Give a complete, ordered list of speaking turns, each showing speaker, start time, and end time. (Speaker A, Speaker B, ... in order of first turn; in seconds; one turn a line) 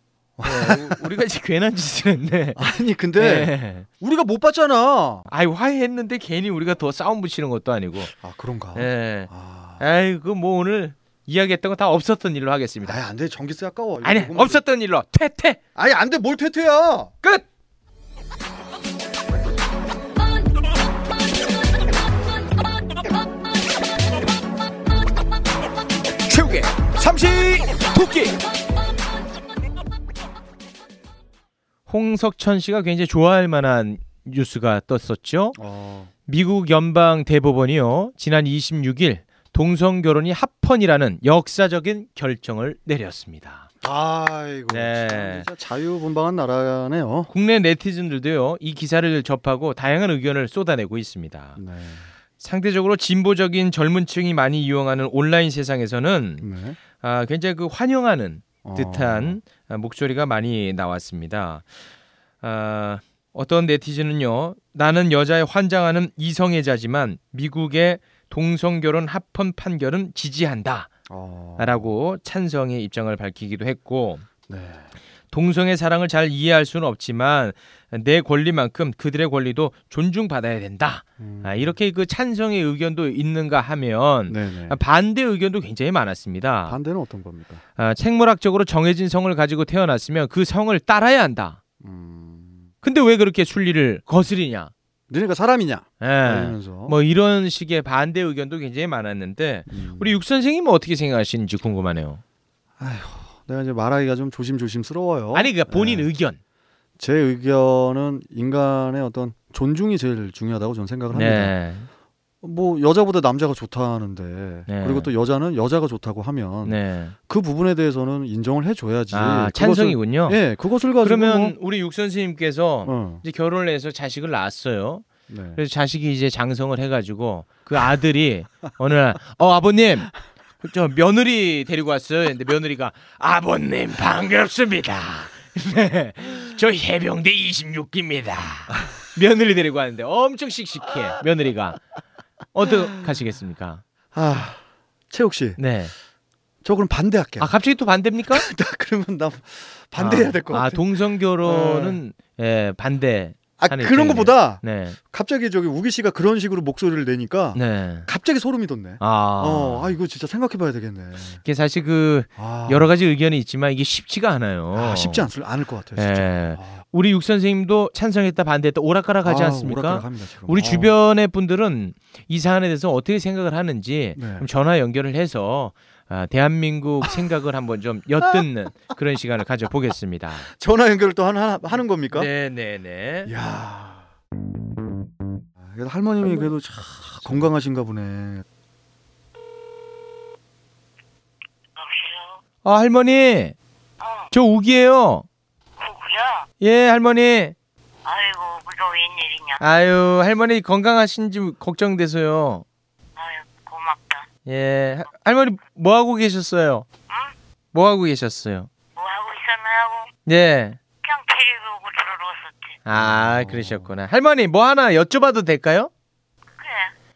Speaker A: 0.4-1.1
Speaker B: 0.4-3.9
Speaker A: 2.5-5.3
Speaker B: 5.3-8.1
Speaker A: 8.2-9.8
Speaker B: 8.7-13.0
Speaker A: 12.8-14.6
Speaker B: 14.0-15.6
Speaker A: 15.8-17.1
Speaker B: 26.3-27.4
Speaker A: 26.3-28.3
Speaker B: 31.9-35.6
Speaker A: 35.5-36.1
Speaker B: 36.3-43.7
Speaker A: 43.8-47.3
Speaker B: 44.7-45.5
Speaker B: 47.3-51.6
Speaker A: 51.5-52.1
Speaker B: 52.4-56.5
Speaker A: 56.4-56.8
Speaker B: 57.0-61.6
Speaker A: 58.6-59.4
Speaker B: 62.4-70.9
Speaker A: 71.1-71.9
Speaker B: 71.6-74.2
Speaker A: 74.5-74.9
Speaker B: 75.3-86.8
Speaker A: 81.2-81.8
Speaker A: 84.3-84.8
Speaker A: 86.6-87.6
Speaker B: 87.8-91.6
Speaker A: 91.8-92.7
Speaker B: 92.8-94.7
Speaker A: 95.1-97.0
Speaker B: 96.0-102.2
Speaker A: 99.7-100.2
Speaker A: 102.8-106.1
Speaker B: 105.3-106.4
Speaker A: 107.0-111.5
Speaker B: 111.1-111.9
Speaker A: 112.4-121.5
Speaker B: 114.7-115.1
Speaker B: 116.6-117.1
Speaker B: 119.1-120.4
Speaker B: 121.0-141.8
Speaker A: 122.8-123.2
Speaker A: 125.3-125.6
Speaker B: 142.5-143.8
Speaker A: 144.1-145.6
Speaker B: 145.6-145.9
Speaker A: 146.6-147.5
Speaker B: 147.4-148.5
Speaker A: 148.3-150.9
Speaker B: 150.0-155.0
Speaker A: 151.4-152.0
Speaker A: 153.6-161.4
Speaker B: 157.5-158.1
Speaker B: 159.0-159.9
Speaker B: 161.4-165.2
Speaker A: 162.4-162.9
Speaker A: 164.7-166.8
Speaker B: 165.9-180.5
Speaker A: 169.2-170.9
Speaker A: 174.2-174.5
Speaker A: 180.5-182.3
Speaker B: 182.1-183.3
Speaker A: 183.2-184.1
Speaker A: 185.6-188.4
Speaker C: 191.8-192.4
Speaker B: 192.6-193.5
Speaker C: 194.0-194.3
Speaker B: 194.3-195.2
Speaker C: 195.8-196.4
Speaker B: 196.6-197.5
Speaker C: 198.0-199.6
Speaker B: 199.6-202.6
Speaker C: 203.2-204.2
Speaker B: 204.4-206.8
Speaker B: 207.7-208.7
Speaker C: 208.9-210.1
Speaker B: 210.2-210.8
Speaker C: 211.0-212.7
Speaker B: 212.8-215.9
Speaker A: 212.9-213.9
Speaker C: 216.6-216.9